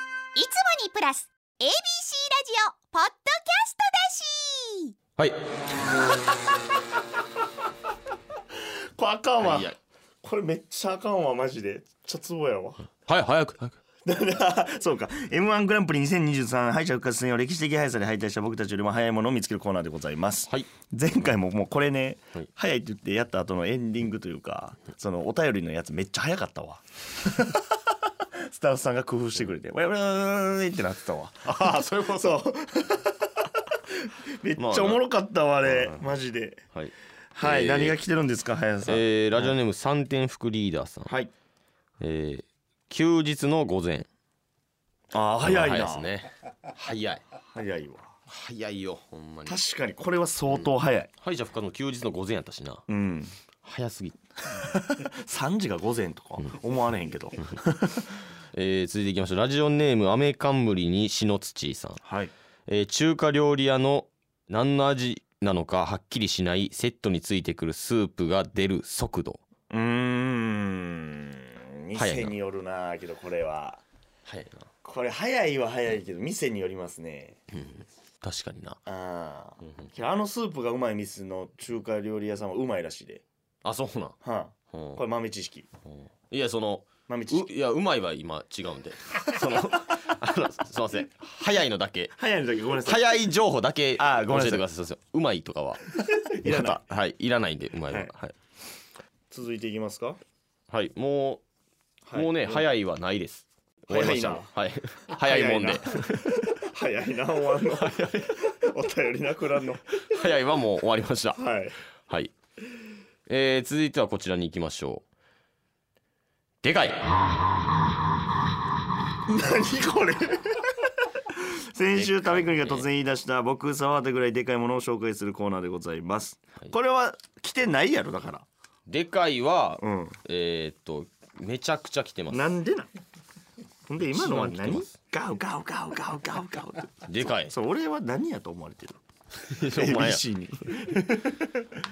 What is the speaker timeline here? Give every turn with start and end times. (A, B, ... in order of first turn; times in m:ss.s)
0:00.3-0:04.9 A
0:09.0-0:12.9 B
0:09.4-0:09.8 C
0:13.0-0:13.8 C
0:14.0-0:27.7 B
0:28.5-0:33.3 B
0:31.4-0:32.4 C
0:33.9-0:36.6 B
0:34.6-0:35.0 C
0:35.6-0:36.1 C
0:36.7-0:38.0 C
0:37.3-0:39.6 B
0:38.8-0:41.2 C
0:41.0-0:41.3 B
0:42.0-0:44.1 C
0:45.1-0:46.1 B
0:45.4-0:47.2 C
0:47.5-0:48.1 B
0:48.3-0:49.6 C
0:49.4-0:51.1 B
0:51.2-0:52.8 C
0:52.9-0:53.3 B
0:53.6-0:54.2 C
0:54.5-0:58.1 B
0:58.5-1:02.0 C
1:02.0-1:02.3 B
1:02.7-1:09.4 C
1:09.7-1:13.8 B
1:11.9-1:12.3 C
1:14.2-1:14.7 C
1:14.8-1:17.4 B
1:17.5-1:18.8 C
1:18.8-1:23.2 B
1:19.6-1:19.9 C
1:23.6-1:24.2 C
1:24.2-1:25.7 B
1:24.7-1:25.0 C
1:25.8-1:32.2 C
1:27.1-1:27.5 B
1:32.2-1:33.1 B
1:32.8-1:38.3 C
1:34.0-1:34.6 B
1:35.9-1:36.8 B
1:39.3-1:40.2 B
1:40.7-1:41.4 C
1:42.0-1:42.7 B
1:42.1-1:46.5 C
1:43.9-1:44.5 B
1:45.2-1:50.0 B
1:47.7-1:48.5 C
1:50.0-1:51.4 C
1:51.4-1:51.8 B
1:52.1-1:52.3 C
1:53.3-1:55.0 C
1:56.6-1:57.1 C
1:59.3-2:08.4 B
2:01.9-2:02.9 C
2:08.9-2:12.5 C
2:09.8-2:10.2 B
2:12.3-2:12.9 B
2:13.9-2:19.0 B
2:14.0-2:15.0 C
2:17.0-2:17.5 C
2:19.3-2:20.2 C
2:19.6-2:21.8 B